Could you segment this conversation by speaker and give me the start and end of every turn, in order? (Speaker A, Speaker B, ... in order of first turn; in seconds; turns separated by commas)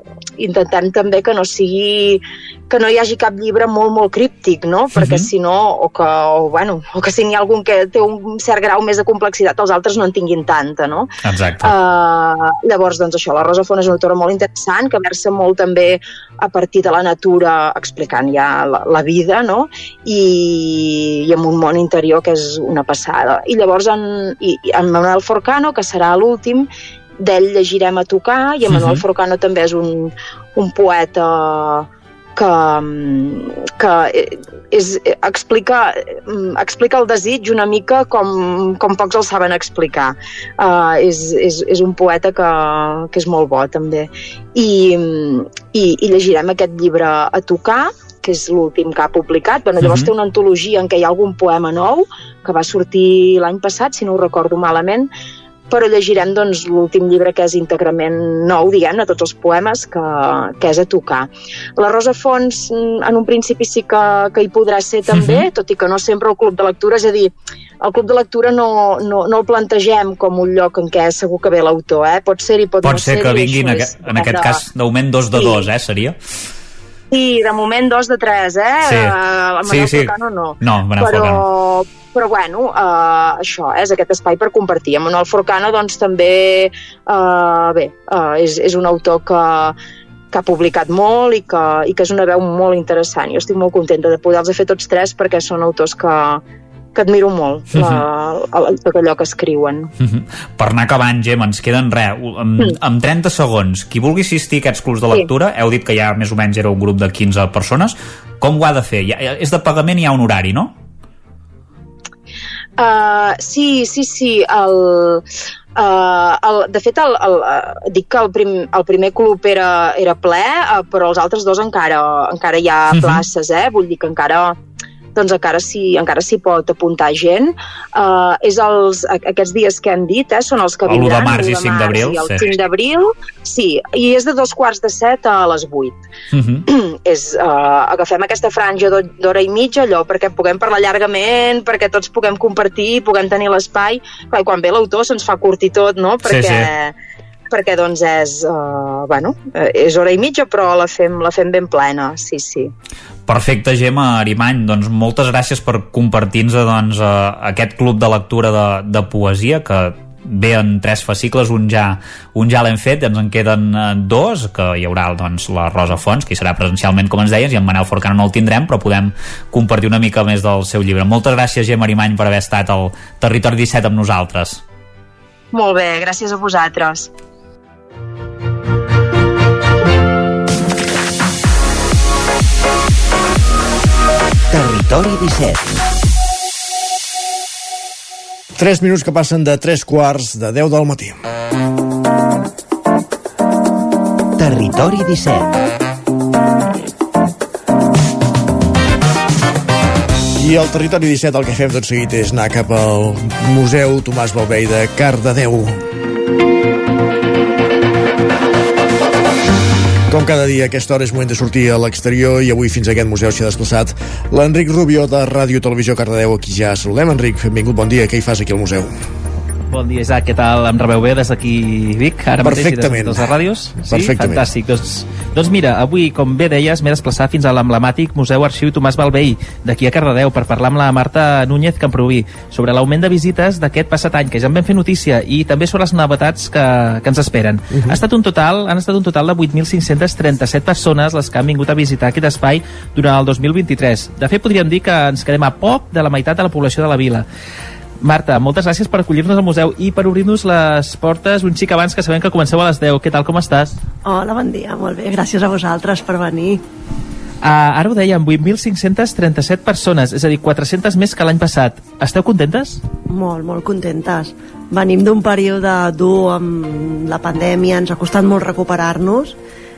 Speaker A: 0.4-26.7, Speaker B: 4.9-5.3, Speaker B: 11.2-11.7, Speaker A: 27.2-55.1, Speaker B: 28.7-29.0, Speaker B: 49.8-50.1, Speaker A: 55.7-74.6, Speaker B: 65.1-65.5, Speaker B: 72.8-76.2, Speaker A: 75.3-75.7, Speaker A: 77.1-89.7, Speaker B: 78.8-81.4, Speaker A: 90.3-96.4, Speaker A: 96.9-99.9, Speaker B: 97.7-98.0, Speaker B: 100.0-110.7, Speaker A: 112.8-115.2, Speaker A: 115.8-124.5, Speaker B: 122.9-123.2, Speaker A: 125.1-136.0, Speaker B: 130.9-132.5, Speaker B: 136.3-136.7, Speaker A: 136.7-146.9, Speaker B: 146.2-146.7, Speaker A: 147.5-152.7, Speaker B: 153.3-174.6, Speaker A: 175.5-177.1, Speaker C: 184.5-185.6, Speaker D: 188.6-191.1, Speaker C: 194.4-195.4, Speaker D: 200.4-205.8, Speaker D: 210.1-218.9, Speaker E: 219.7-247.2, Speaker D: 222.4-224.4, Speaker D: 237.7-238.0, Speaker E: 248.0-253.8, Speaker F: 254.0-256.6, Speaker E: 257.4-262.8, Speaker F: 263.1-269.4